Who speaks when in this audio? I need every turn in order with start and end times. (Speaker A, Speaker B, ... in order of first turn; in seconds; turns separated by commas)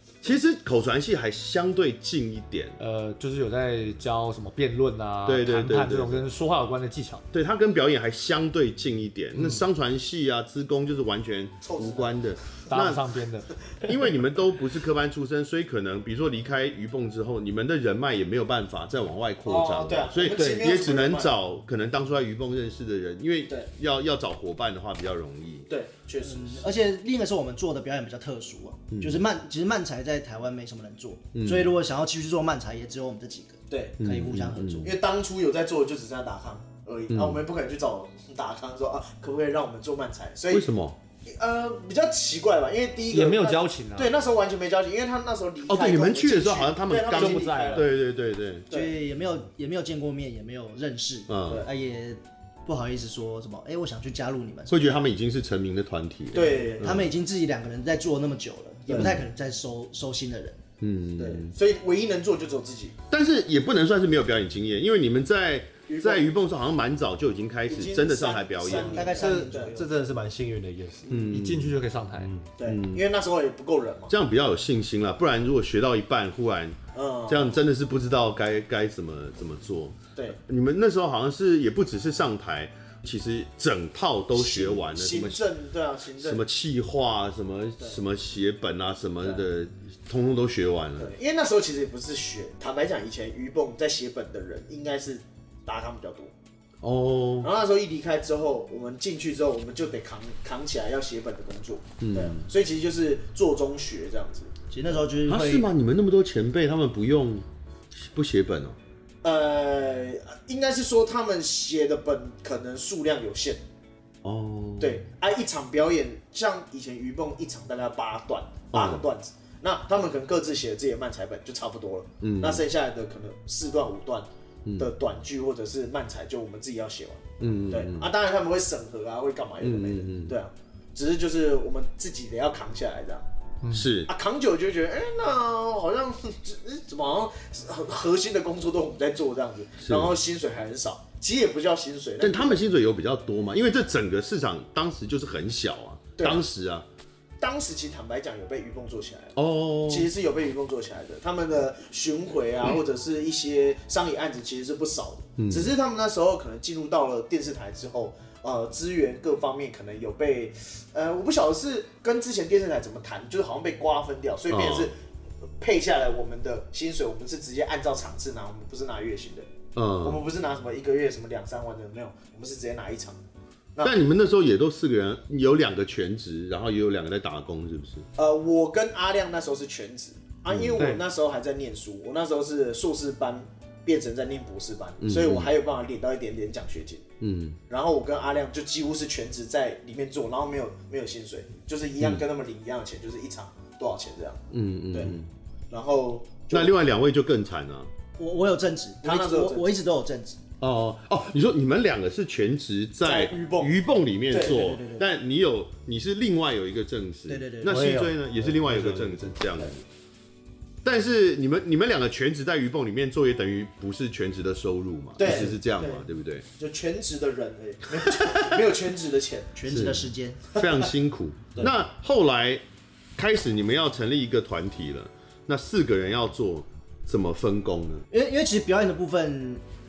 Speaker A: 0.2-2.8, Speaker B: 2.8-7.2, Speaker A: 5.2-6.2, Speaker A: 7.3-13.0, Speaker C: 11.6-12.1, Speaker B: 12.7-13.7, Speaker A: 13.8-25.7, Speaker C: 19.4-21.3, Speaker B: 20.3-20.7, Speaker C: 25.7-26.7, Speaker D: 26.2-35.0, Speaker A: 28.9-29.2, Speaker A: 31.3-31.7, Speaker C: 33.7-34.0, Speaker A: 34.0-34.9, Speaker C: 34.8-40.7, Speaker A: 37.1-37.4, Speaker A: 40.5-41.0, Speaker C: 41.2-47.9, Speaker B: 43.1-44.2, Speaker A: 45.6-48.7, Speaker B: 46.9-47.9, Speaker C: 48.7-48.9, Speaker D: 48.7-54.9, Speaker A: 51.3-51.6, Speaker A: 54.7-57.1, Speaker C: 56.3-57.0, Speaker D: 56.8-60.6, Speaker C: 58.9-59.1, Speaker A: 58.9-59.2, Speaker A: 60.8-61.5, Speaker C: 61.2-63.0, Speaker A: 63.1-69.2, Speaker C: 65.9-66.2, Speaker C: 67.7-69.8, Speaker D: 68.7-69.9, Speaker E: 69.1-71.3, Speaker A: 71.1-71.7, Speaker B: 71.3-72.3, Speaker E: 72.1-72.5, Speaker C: 72.6-74.1, Speaker A: 72.6-73.0, Speaker A: 74.1-85.4, Speaker C: 76.9-77.6, Speaker C: 84.3-86.4, Speaker A: 86.2-91.1, Speaker C: 91.0-96.3, Speaker A: 96.8-97.5, Speaker C: 97.4-104.9, Speaker A: 102.0-102.5, Speaker D: 104.7-105.7, Speaker A: 105.3-108.8, Speaker C: 109.2-113.6, Speaker A: 114.2-115.0, Speaker C: 114.8-133.2, Speaker A: 118.7-119.0, Speaker A: 122.2-122.6, Speaker A: 127.4-128.1, Speaker A: 129.6-130.4, Speaker B: 133.6-133.9, Speaker A: 133.7-134.1, Speaker C: 134.1-142.6, Speaker A: 139.8-140.1, Speaker A: 142.2-146.8, Speaker C: 147.4-149.3, Speaker A: 149.3-150.1, Speaker C: 149.9-164.9, Speaker A: 155.4-155.7, Speaker A: 164.5-164.9, Speaker C: 165.6-169.5, Speaker A: 169.7-170.2, Speaker C: 170.0-173.2, Speaker A: 173.8-178.1, Speaker C: 178.2-187.0, Speaker A: 180.5-180.8, Speaker B: 180.8-181.0, Speaker A: 185.0-185.5, Speaker A: 187.2-187.6, Speaker C: 187.7-195.1, Speaker A: 194.5-195.3, Speaker C: 195.7-196.7, Speaker A: 196.5-197.9, Speaker D: 198.2-200.4, Speaker C: 199.0-199.7, Speaker A: 200.6-209.8, Speaker C: 203.0-203.7, Speaker C: 204.3-204.6, Speaker D: 204.4-205.1, Speaker D: 207.3-207.9, Speaker E: 207.6-209.4, Speaker A: 210.8-216.4, Speaker C: 215.2-216.0, Speaker C: 216.6-219.5, Speaker A: 218.1-218.6, Speaker D: 219.6-220.4, Speaker A: 219.7-222.6, Speaker C: 220.6-220.8, Speaker A: 223.2-228.0, Speaker D: 228.1-229.6